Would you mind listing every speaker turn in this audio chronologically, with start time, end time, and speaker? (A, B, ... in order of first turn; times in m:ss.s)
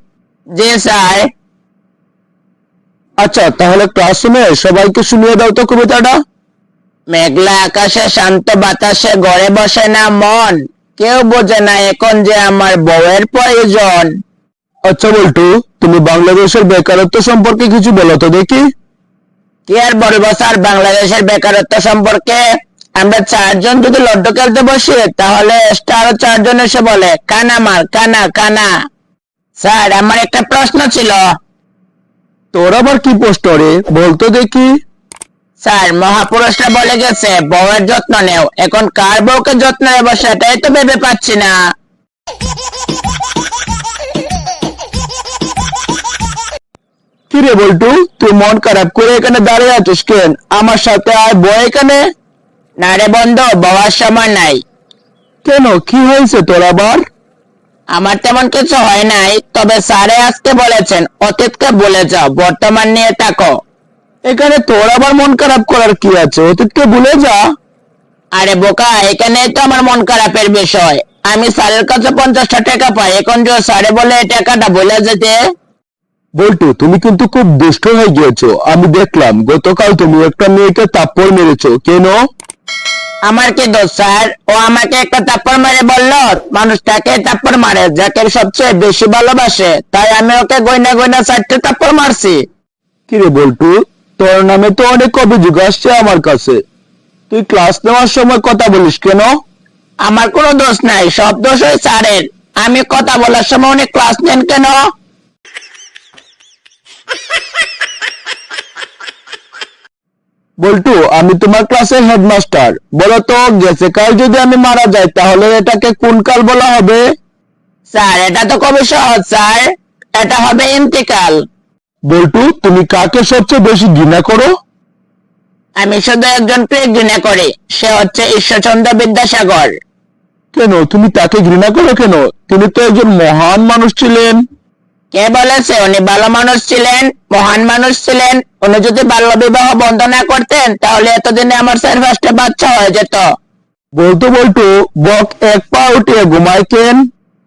0:00.5-0:01.3 A
0:03.2-0:06.2 B
0:07.1-0:14.1 A
0:14.9-0:18.6 B
0:19.7-0:22.4 A
0:23.0-0:28.7 A
0:29.6-0:31.2 A
0:32.5-0:34.7 B
0:35.6-0:41.5 A
0:47.3-0:52.0 B
0:52.8-0:54.6 A
0:55.4-0:57.0 B
0:57.9-1:03.5 A
1:04.3-1:07.4 B
1:08.3-1:15.4 A
1:16.4-1:22.2 B
1:23.3-1:32.4 A
1:33.1-1:36.6 B
1:37.3-1:39.4 B
1:40.0-1:44.9 A
1:50.6-1:57.0 B
1:57.9-2:01.4 A
2:02.1-2:04.5 B
2:05.8-2:09.7 A
2:10.5-2:14.4 B
2:15.1-2:23.2 A
2:23.9-2:27.0 B